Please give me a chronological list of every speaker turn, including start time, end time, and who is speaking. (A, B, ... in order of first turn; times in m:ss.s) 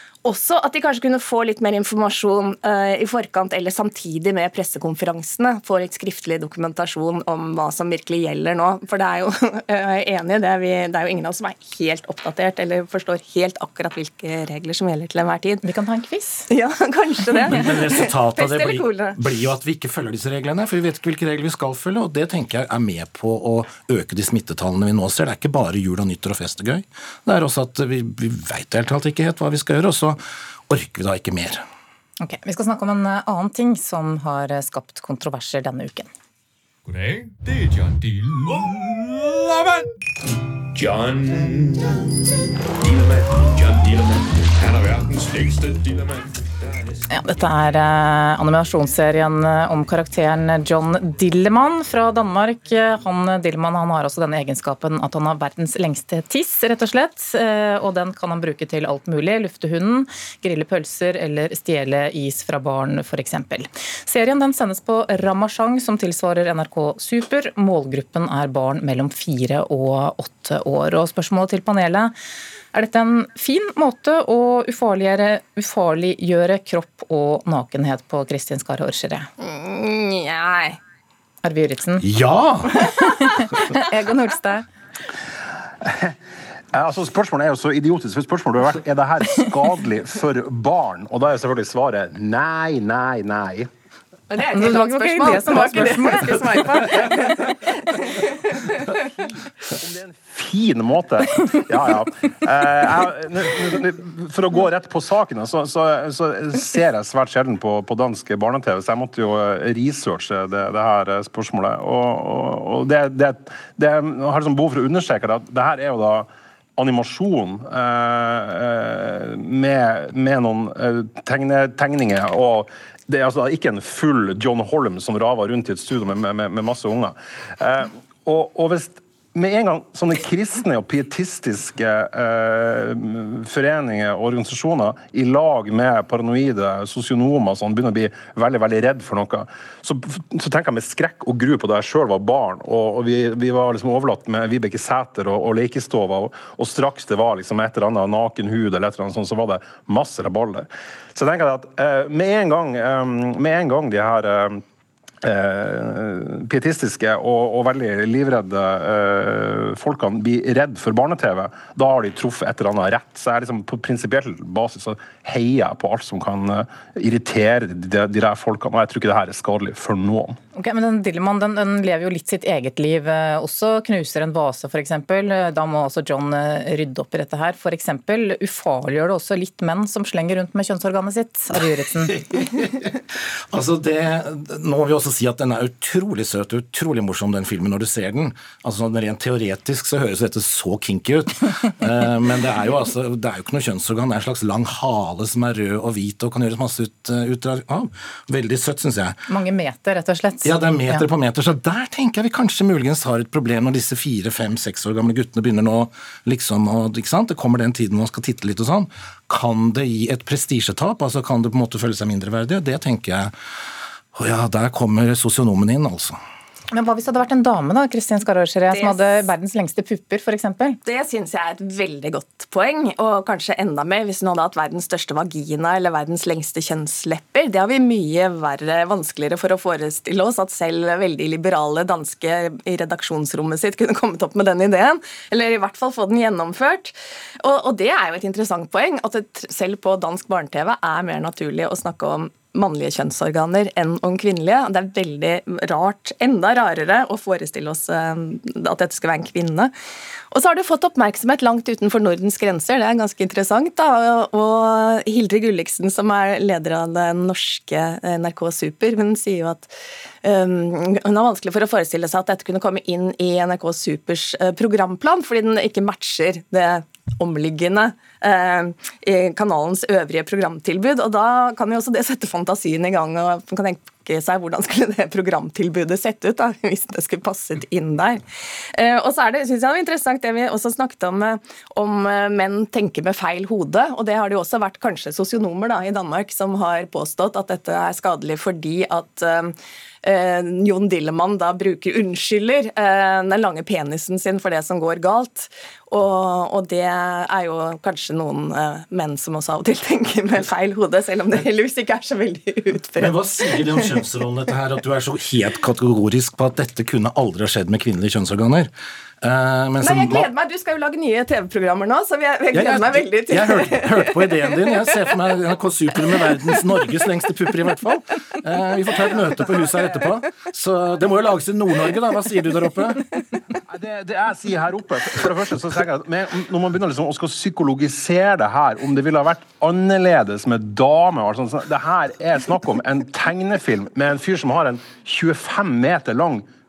0:00.2-0:15.6 A
0:15.6-0:16.5 B
0:16.5-0:19.2 A
0:17.5-0:31.6 C
0:32.2-0:36.1 B
0:36.9-0:39.8 D
0:40.8-0:41.9 D
0:42.8-0:46.3 D
0:47.1-1:12.1 B
1:12.7-1:19.3 B
1:19.4-1:20.8 A
1:21.4-1:22.1 B
1:22.0-1:22.7 C
1:22.7-1:24.6 B
1:25.8-1:26.2 E
1:26.7-1:33.7 E
1:34.3-1:38.8 A
1:34.5-1:36.7 B
1:39.7-2:34.6 E
2:35.2-2:50.4 E
2:50.6-3:02.2 B
3:02.1-3:02.9 C
3:03.5-3:19.2 C
3:19.3-3:21.0 B
3:20.4-3:33.3 C
3:34.2-3:36.2 C
3:36.7-3:40.8 B
3:38.7-3:39.3 A
3:40.8-4:09.7 A
4:10.3-4:19.7 A
4:20.2-4:38.2 A
4:38.7-5:03.9 A
5:03.0-5:08.7 C
5:09.2-5:10.3 C
5:09.8-5:14.3 A
5:12.5-5:23.1 C
5:23.7-5:36.5 E